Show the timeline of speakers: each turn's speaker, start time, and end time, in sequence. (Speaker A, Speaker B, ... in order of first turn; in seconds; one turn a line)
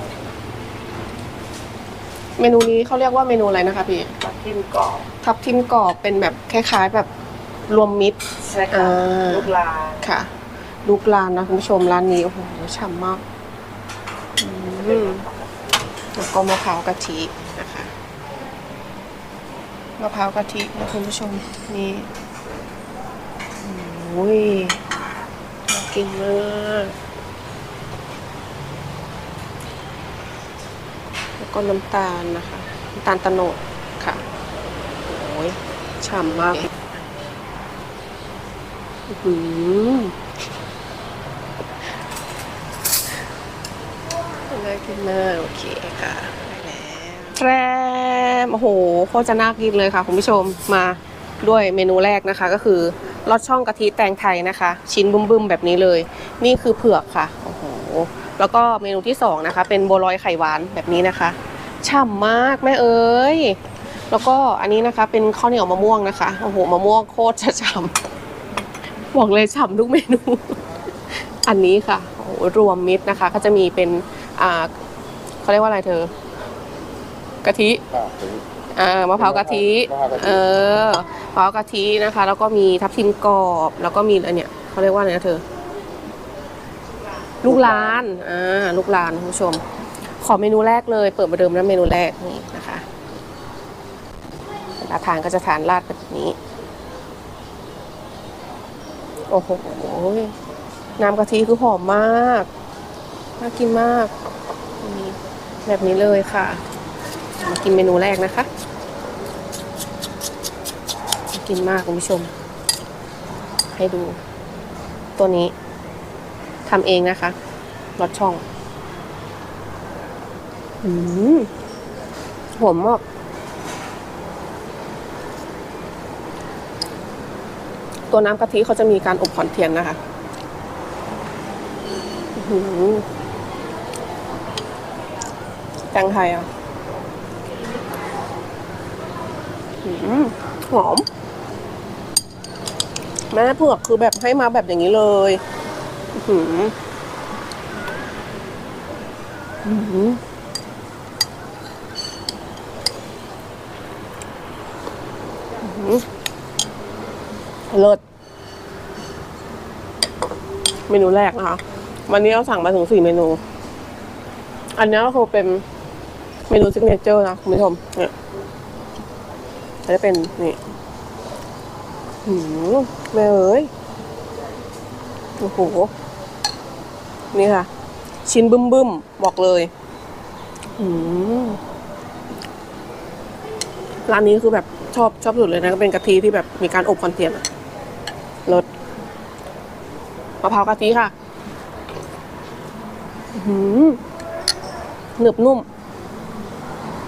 Speaker A: 2.4-4.1
Speaker B: 4.2-5.0
Speaker A: 5.2-7.1
Speaker A: 7.7-8.2
Speaker B: 8.5-9.9
Speaker A: 8.7-10.3
Speaker A: 10.8-13.2
Speaker A: 14.4-15.3
Speaker A: 16.1-17.9
Speaker A: 20.0-22.1
Speaker A: 23.6-24.8
Speaker A: 25.7-26.9
Speaker A: 31.4-34.2
Speaker A: 35.1-37.0
Speaker A: 39.1-40.2
Speaker A: 44.5-63.6
Speaker A: 64.1-68.0
Speaker A: 69.1-74.7
Speaker A: 75.4-76.1
Speaker A: 77.4-77.8
Speaker C: 77.9-78.4
Speaker A: 78.7-85.4
Speaker C: 79.2-80.4
Speaker A: 87.4-89.6
Speaker C: 87.5-88.0
Speaker A: 90.2-92.9
Speaker A: 94.8-96.4
Speaker A: 99.3-100.3
Speaker A: 101.0-102.5
Speaker A: 103.4-104.1
Speaker A: 104.8-106.6
Speaker A: 107.4-108.5
Speaker A: 111.3-112.3
Speaker A: 113.7-114.2
Speaker A: 115.2-115.5
Speaker A: 116.7-117.3
Speaker A: 118.0-118.4
Speaker A: 120.8-121.5
Speaker A: 122.6-123.0
Speaker A: 128.1-130.0
Speaker A: 132.4-133.0
Speaker A: 135.9-136.5
Speaker A: 139.8-141.1
Speaker A: 143.3-145.4
Speaker A: 146.1-146.7
Speaker A: 149.6-150.2
Speaker A: 155.6-156.1
Speaker A: 157.7-158.0
Speaker A: 160.9-163.4
Speaker A: 164.8-165.6
Speaker A: 166.5-168.1
Speaker A: 169.9-170.6
Speaker A: 172.2-173.7
Speaker A: 175.4-175.9
Speaker A: 177.3-177.7
Speaker A: 178.3-179.7
Speaker A: 180.8-181.6
Speaker A: 184.1-187.4
Speaker A: 190.4-191.1
Speaker A: 193.3-194.0
Speaker A: 195.2-195.7